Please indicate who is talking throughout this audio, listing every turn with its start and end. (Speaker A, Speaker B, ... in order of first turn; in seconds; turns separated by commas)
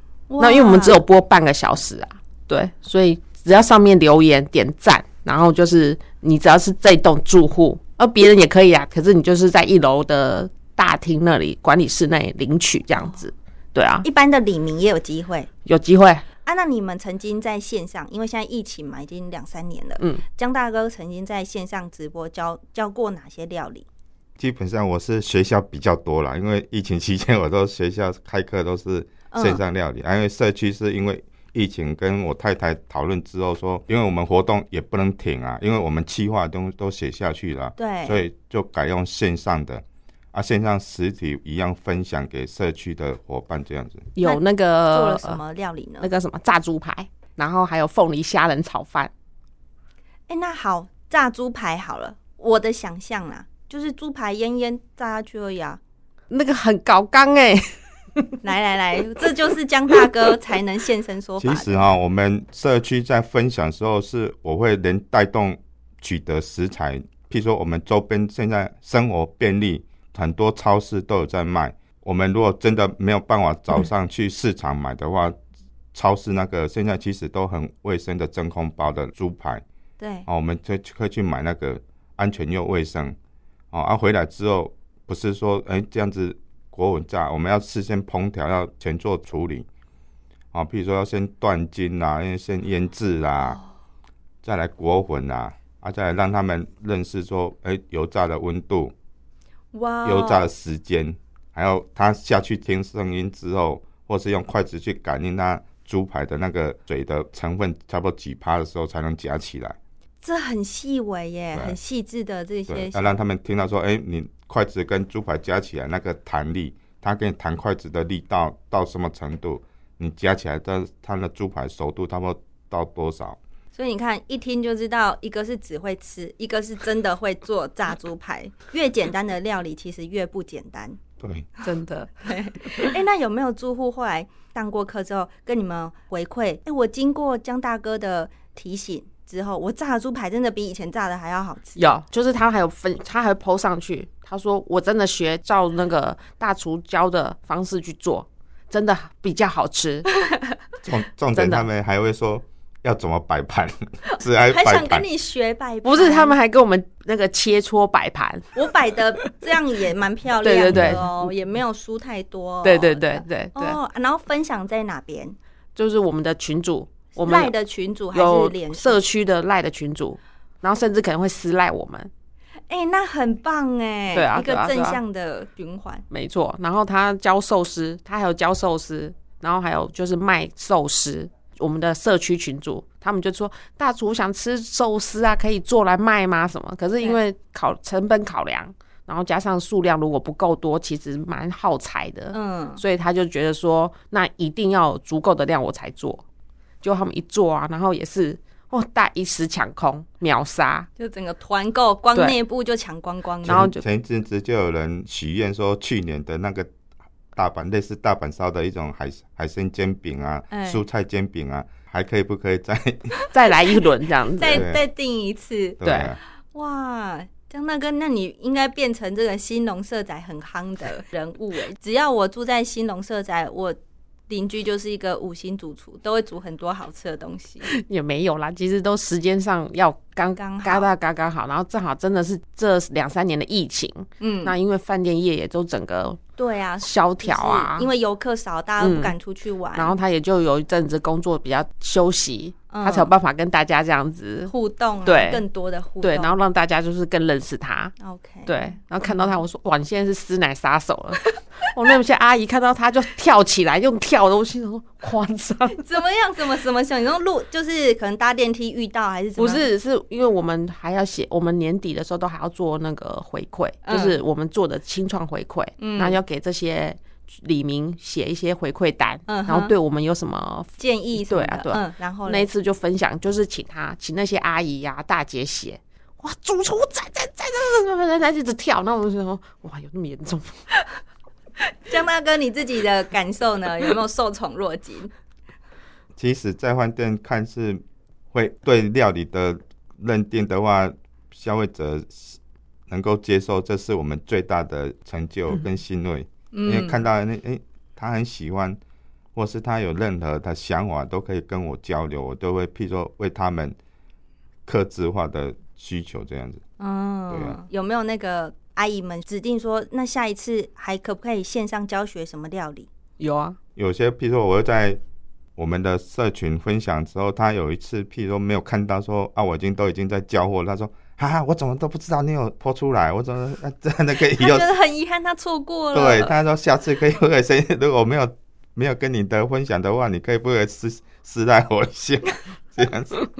Speaker A: 0.3-1.0, Speaker B: 0.4-14.1, Speaker A: 14.0-15.5, Speaker B: 15.7-16.2, Speaker A: 16.4-23.9, Speaker C: 24.4-44.1, Speaker A: 29.3-29.6, Speaker A: 37.8-38.2, Speaker B: 44.2-45.4, Speaker A: 44.2-46.1, Speaker B: 46.0-49.1, Speaker A: 50.3-55.8, Speaker B: 56.3-58.4, Speaker A: 58.4-61.9, Speaker C: 61.4-75.4, Speaker C: 75.9-79.6, Speaker A: 80.0-80.3, Speaker C: 80.3-83.2, Speaker C: 83.7-89.7, Speaker C: 90.5-93.6, Speaker C: 94.4-98.9, Speaker A: 99.7-100.5, Speaker C: 100.0-109.8, Speaker A: 110.2-113.2, Speaker C: 112.7-123.4, Speaker A: 123.8-131.0, Speaker C: 131.2-131.5, Speaker B: 131.6-132.9, Speaker A: 132.3-141.9, Speaker B: 141.8-150.1, Speaker C: 150.8-155.1, Speaker B: 151.3-151.7, Speaker A: 154.2-156.3, Speaker B: 155.8-158.6, Speaker A: 158.6-165.4, Speaker B: 160.4-161.3, Speaker C: 160.7-161.0, Speaker B: 162.6-163.8, Speaker B: 165.8-167.5, Speaker A: 167.1-169.0, Speaker B: 168.1-172.1, Speaker A: 172.7-176.1, Speaker B: 174.1-175.0, Speaker B: 176.1-196.2, Speaker A: 192.3-192.8, Speaker B: 196.8-200.9, Speaker A: 201.0-203.7, Speaker C: 203.4-206.7, Speaker B: 203.5-203.8, Speaker C: 207.3-213.1, Speaker A: 210.5-210.8, Speaker A: 213.2-213.8, Speaker B: 213.3-214.7, Speaker A: 214.4-215.8, Speaker C: 214.5-214.8, Speaker C: 215.8-216.2, Speaker B: 215.8-216.1, Speaker A: 216.5-223.8, Speaker A: 224.3-227.7, Speaker B: 227.7-236.2, Speaker A: 230.4-230.9, Speaker A: 234.2-234.6, Speaker A: 236.4-239.9, Speaker B: 236.8-237.9, Speaker B: 238.8-239.1, Speaker B: 239.8-244.5, Speaker A: 242.7-243.1, Speaker A: 244.5-246.4, Speaker B: 245.1-245.4, Speaker B: 246.0-247.9, Speaker A: 248.0-249.4, Speaker B: 248.5-255.9, Speaker A: 255.8-259.7, Speaker B: 259.4-280.6, Speaker A: 263.9-264.2, Speaker A: 265.8-266.2, Speaker A: 269.3-269.7, Speaker A: 270.8-272.5, Speaker A: 281.9-285.1, Speaker C: 286.2-292.4, Speaker C: 292.9-298.8, Speaker A: 296.5-297.0, Speaker C: 299.4-303.8, Speaker C: 304.7-306.6, Speaker A: 306.8-312.9, Speaker C: 307.3-307.6, Speaker B: 313.2-313.6, Speaker C: 313.8-315.0, Speaker C: 315.6-324.7, Speaker A: 324.3-326.4, Speaker C: 325.9-333.2